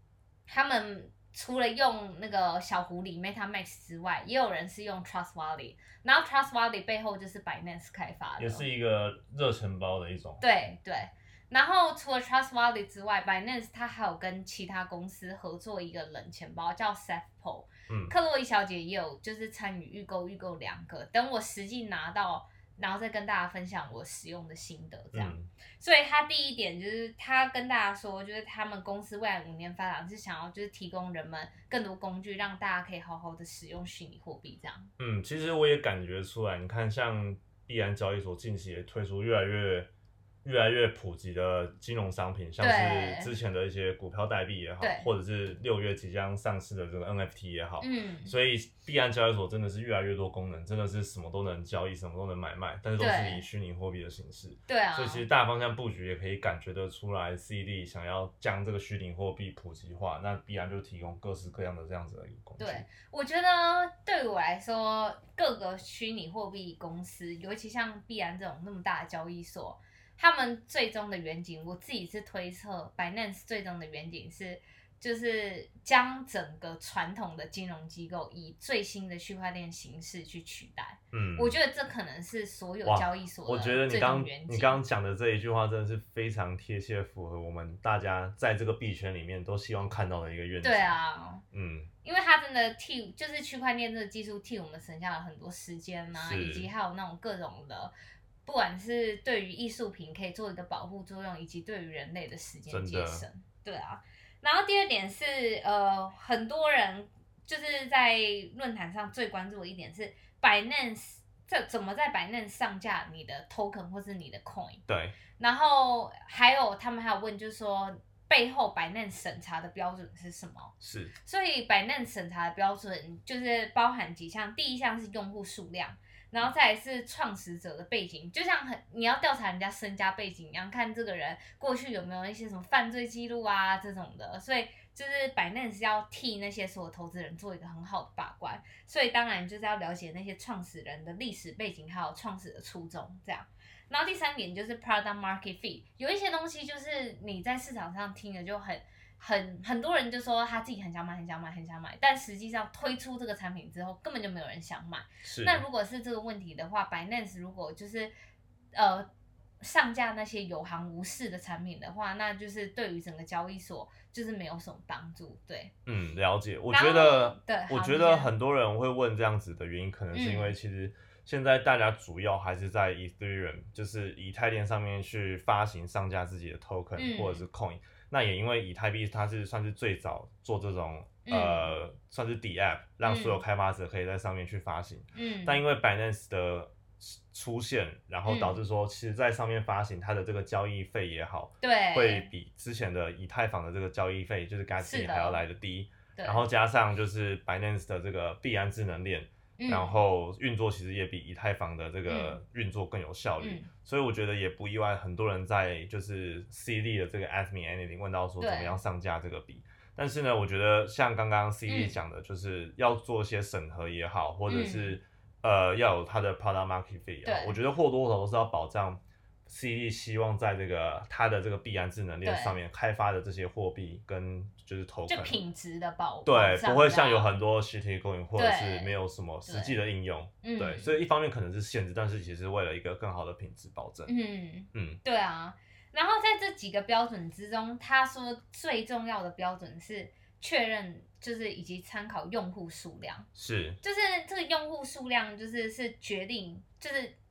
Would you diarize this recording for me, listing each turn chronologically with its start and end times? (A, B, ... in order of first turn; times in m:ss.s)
0:00.5-0:08.7 A
0:08.4-0:10.4 B
0:10.4-0:34.9 A
0:17.9-0:18.1 B
0:25.1-0:25.5 B
0:35.0-0:39.9 B
0:40.4-1:02.8 B
0:42.6-0:43.3 A
0:44.8-0:45.1 A
0:47.8-0:48.3 A
0:53.0-0:53.4 A
0:54.7-0:55.2 A
1:02.6-1:24.8 A
1:21.1-1:21.6 B
1:22.8-1:31.0 B
1:30.6-1:31.4 A
1:31.5-1:31.9 B
1:32.0-1:37.9 A
1:36.1-1:36.7 B
1:38.4-1:54.8 A
1:42.7-1:43.2 B
1:54.9-1:55.2 B
1:55.4-2:38.1 A
2:00.8-2:01.1 B
2:35.2-2:35.6 B
2:38.7-2:39.1 A
2:39.6-2:45.7 A
2:45.9-3:45.4 B
2:46.7-2:48.3 A
2:50.1-2:50.6 A
2:57.0-2:57.4 A
3:01.2-3:01.7 A
3:03.0-3:03.4 A
3:05.2-3:05.6 A
3:08.3-3:08.6 A
3:11.6-3:12.3 A
3:14.8-3:15.4 A
3:16.2-3:16.4 A
3:19.6-3:20.0 A
3:22.1-3:22.4 A
3:23.4-3:23.7 A
3:28.4-3:28.8 A
3:31.7-3:32.0 A
3:34.5-3:35.0 A
3:37.2-3:37.6 A
3:42.2-3:42.6 A
3:45.1-3:47.3 A
3:46.2-3:54.1 B
3:48.4-3:49.8 A
3:50.4-3:51.0 A
3:54.1-4:03.3 A
3:54.7-3:55.0 B
4:03.4-4:03.8 B
4:03.8-4:07.2 A